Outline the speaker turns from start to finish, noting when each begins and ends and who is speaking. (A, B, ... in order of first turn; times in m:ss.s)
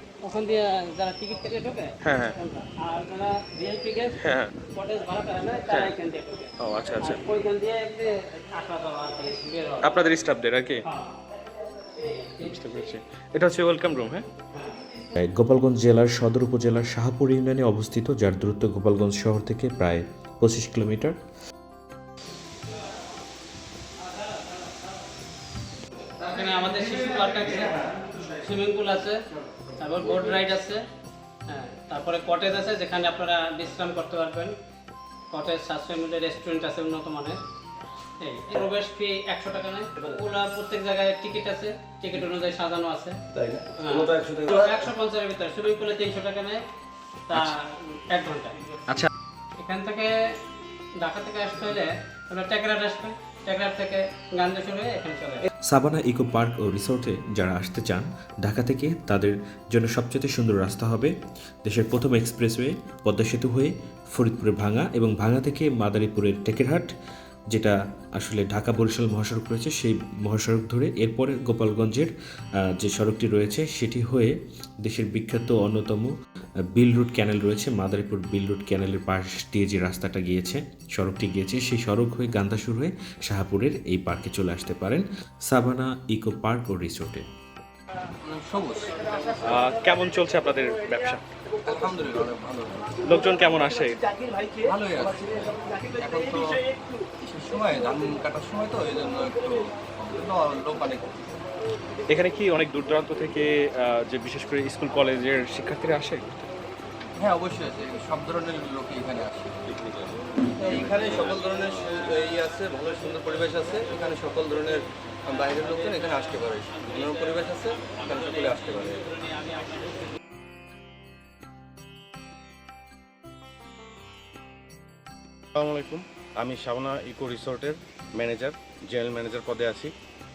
0:00.2-0:04.2 A
0:02.0-0:02.4 B
0:04.2-0:04.5 B
0:04.7-0:10.1 A
0:06.6-0:07.2 B
0:09.8-0:10.8 B
0:12.4-0:14.3 B
0:15.2-0:21.2 C
0:26.2-0:29.2 A
0:29.8-0:30.8 A
0:31.5-0:34.5 A
0:35.3-0:37.4 A
0:38.2-0:46.6 A
0:47.3-0:49.1 A
0:49.6-0:50.1 A
0:51.0-0:55.5 A
0:55.7-1:06.9 C
1:07.5-1:12.1 C
1:12.6-1:16.1 C
1:16.7-1:27.2 C
1:28.2-1:29.4 D
1:29.4-1:31.2 B
1:31.6-1:33.0 D
1:33.0-1:34.0 B
1:34.5-1:36.6 D
1:37.2-1:41.4 D
1:42.1-1:46.2 B
1:47.2-1:49.8 D
1:50.5-1:59.1 D
1:59.4-1:59.7 A
2:05.6-2:09.9 E